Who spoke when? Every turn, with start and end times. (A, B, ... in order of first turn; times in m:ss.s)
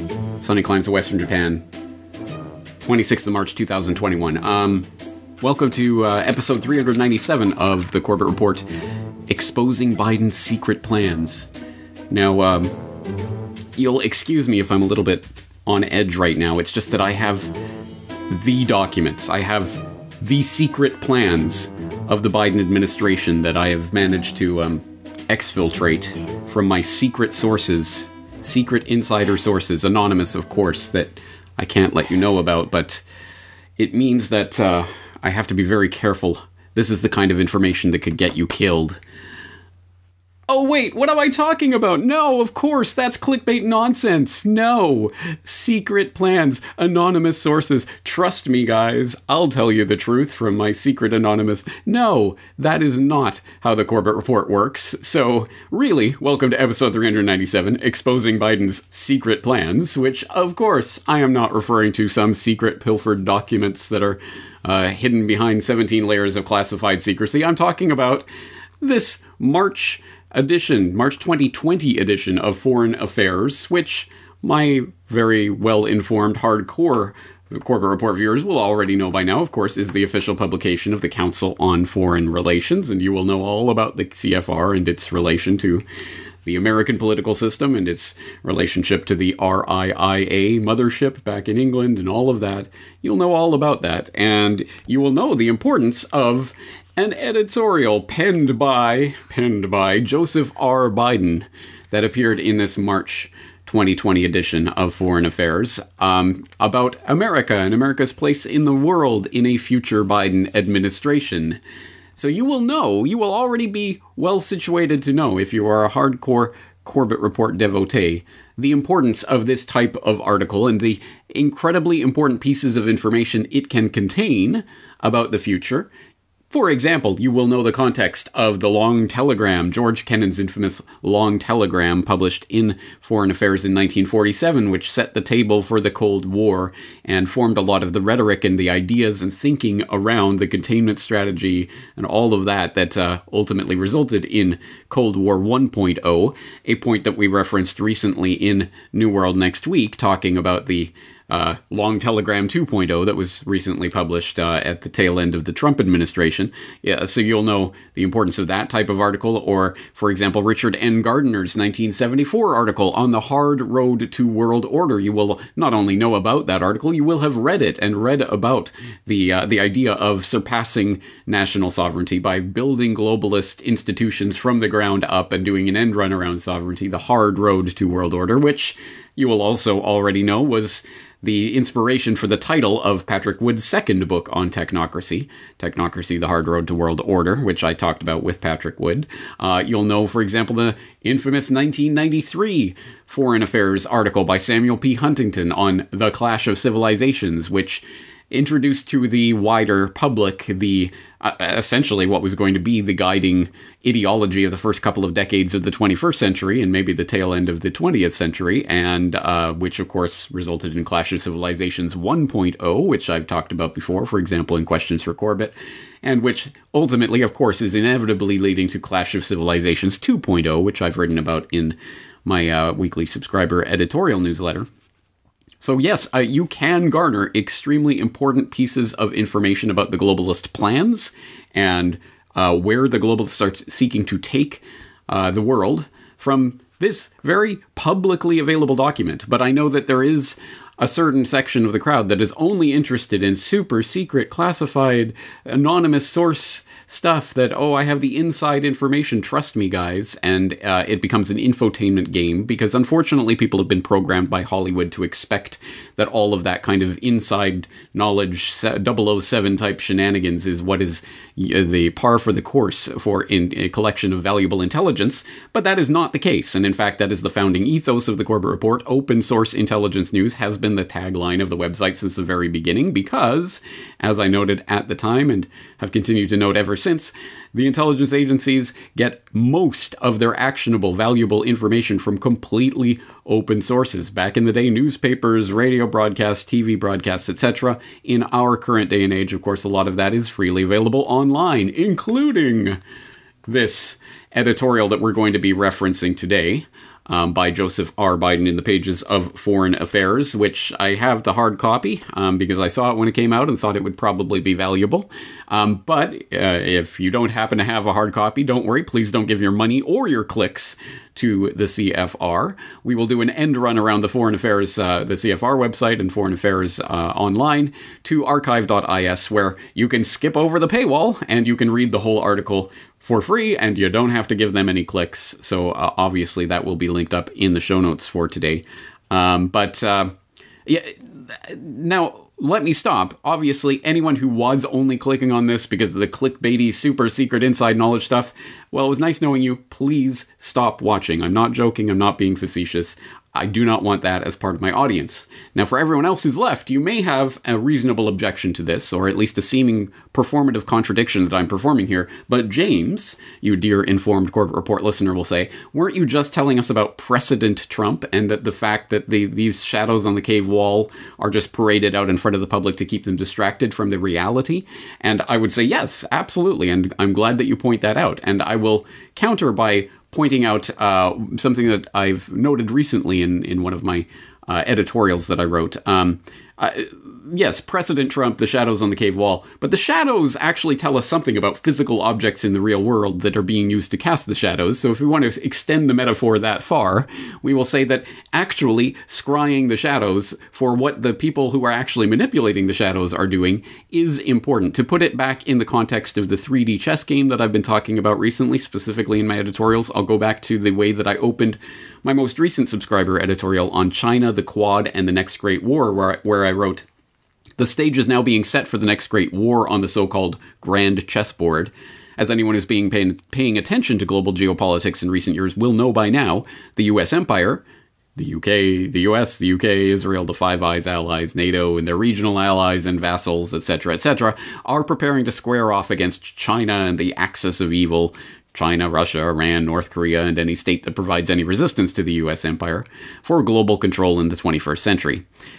0:00.4-0:01.7 A
0:02.8-0:04.9 A
0:05.4-0:08.7 A
0:09.3-0:11.5 A
0:12.1-0:12.8 A
0:13.8-0:17.5 A
0:18.3-0:33.0 A
0:33.8-0:39.0 A
0:40.5-1:08.3 A
1:08.8-1:25.9 A
1:26.4-1:51.6 A
1:52.2-2:05.9 A
2:06.5-3:44.7 A
3:45.6-4:52.8 A
4:53.5-5:30.1 A
5:30.6-6:46.9 A
6:47.6-6:57.6 A
6:58.2-7:15.2 A